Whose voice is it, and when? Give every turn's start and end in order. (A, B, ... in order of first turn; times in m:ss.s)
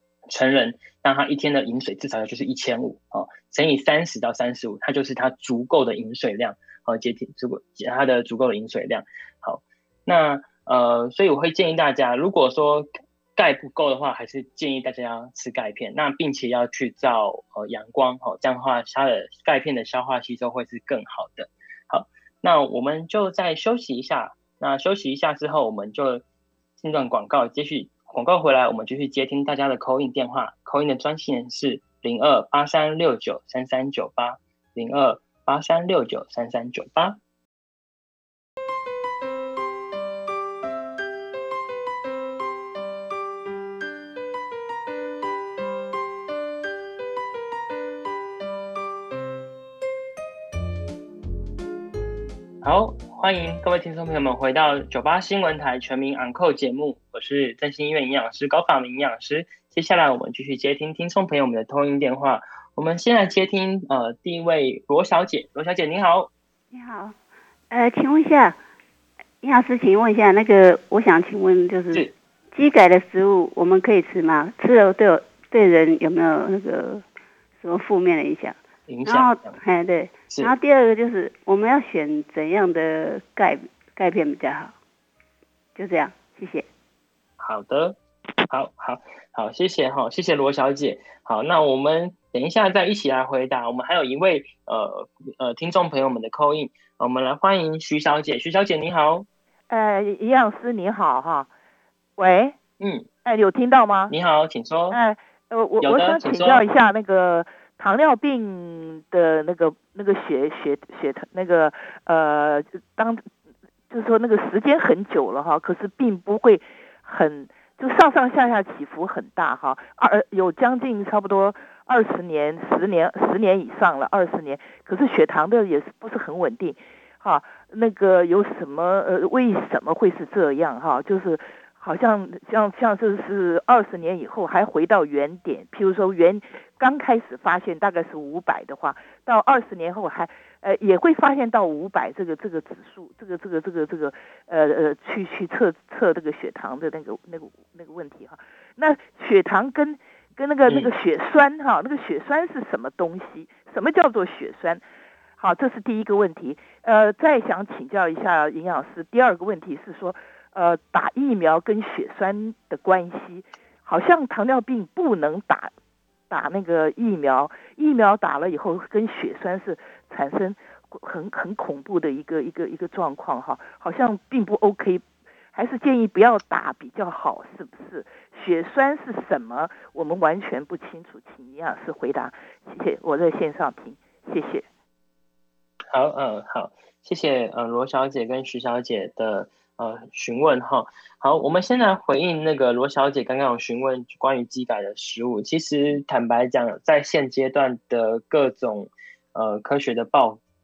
0:00.3-0:26.2 A
0:26.8-0:37.2 A
0:52.6-1:06.3 A
1:06.7-1:07.2 B
1:07.7-1:08.6 B
1:09.4-1:12.0 B
1:12.6-1:17.0 B
1:17.6-1:24.7 B
1:18.9-1:19.6 A
1:25.8-1:26.7 B
1:27.4-1:28.0 A
1:28.5-1:39.3 A
1:39.7-1:41.5 C
1:42.2-1:42.6 C
1:42.8-1:43.1 A
1:43.2-1:44.2 C
1:44.1-1:45.0 A
1:44.9-1:53.2 C
1:45.8-1:46.6 A
1:53.9-2:34.8 C
2:30.7-2:30.9 A
2:35.4-2:45.7 C
2:46.3-3:04.6 C
3:05.9-3:20.4 A